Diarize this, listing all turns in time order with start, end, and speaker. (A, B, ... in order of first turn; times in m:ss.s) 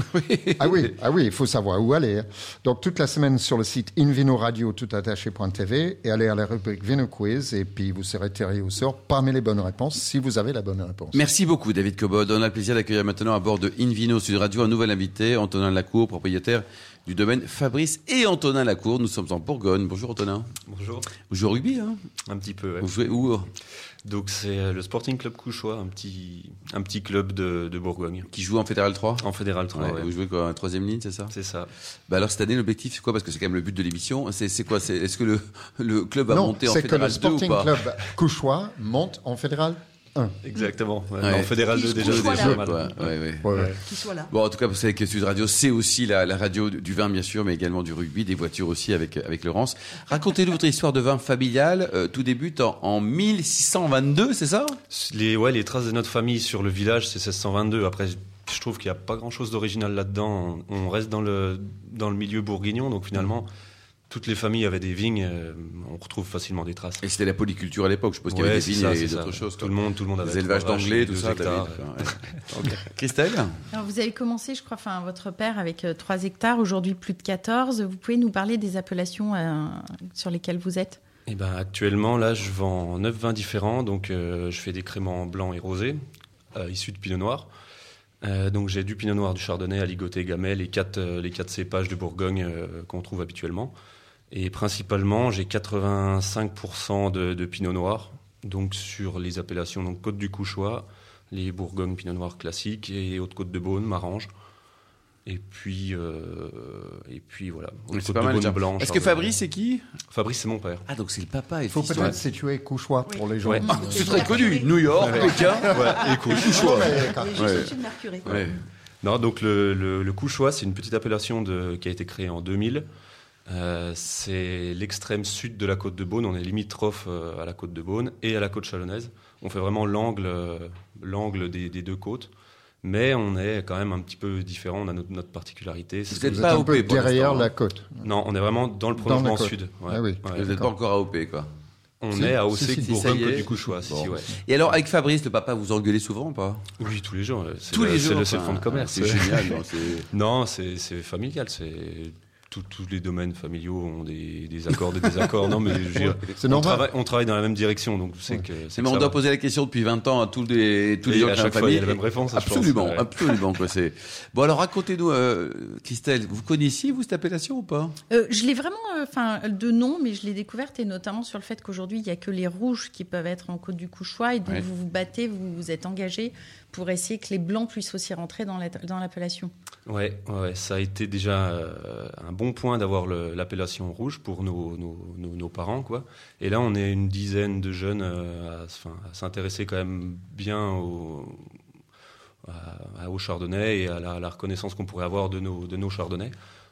0:00.1-0:00.9 A
0:00.6-0:11.2 B
0:11.1-0:20.5 A
0:20.7-0:21.1 C
0:21.1-0:22.0 A
0:22.3-0:23.0 C
0:22.8-0:23.5 A
0:24.0-0:28.3 C
0:28.3-0:31.3 A
0:29.2-0:30.1 C
0:31.3-0:31.7 C
0:32.1-0:37.8 A
0:36.3-0:40.4 B
0:40.4-0:43.7 C
0:41.2-0:43.7 A
0:41.7-0:42.5 D
0:42.1-0:42.7 B
0:43.4-0:43.8 B
0:43.8-0:44.3 D
0:44.2-0:54.8 A
0:54.9-1:03.5 C
1:04.1-1:07.0 C
1:07.0-1:13.6 A
1:08.3-1:12.8 C
1:13.7-1:21.0 E
1:21.3-1:26.0 C
1:26.5-1:27.5 C
1:28.2-1:33.7 C
1:34.3-1:44.3 C
1:45.2-1:49.4 C
1:47.9-1:49.8 A
1:50.1-1:50.8 C
1:50.9-1:52.2 A
1:51.7-1:57.6 B
1:53.4-1:53.7 C
1:53.6-1:58.5 A
1:53.7-1:54.6 D
1:54.9-1:56.5 C
1:56.5-1:58.3 D
1:59.0-2:02.8 C
2:03.5-2:12.3 C
2:12.8-2:16.5 C
2:16.1-2:17.5 A
2:16.2-2:18.1 B
2:18.0-2:20.5 C
2:19.0-2:20.7 B
2:20.3-2:21.5 A
2:22.0-2:24.8 C
2:22.1-2:26.6 A
2:22.5-2:23.0 B
2:26.8-2:39.2 C
2:27.7-2:30.1 A
2:36.0-2:36.9 B
2:38.7-2:48.0 A
2:41.0-2:43.4 C
2:48.1-2:59.5 E
2:59.9-3:11.5 C
3:12.4-3:16.3 C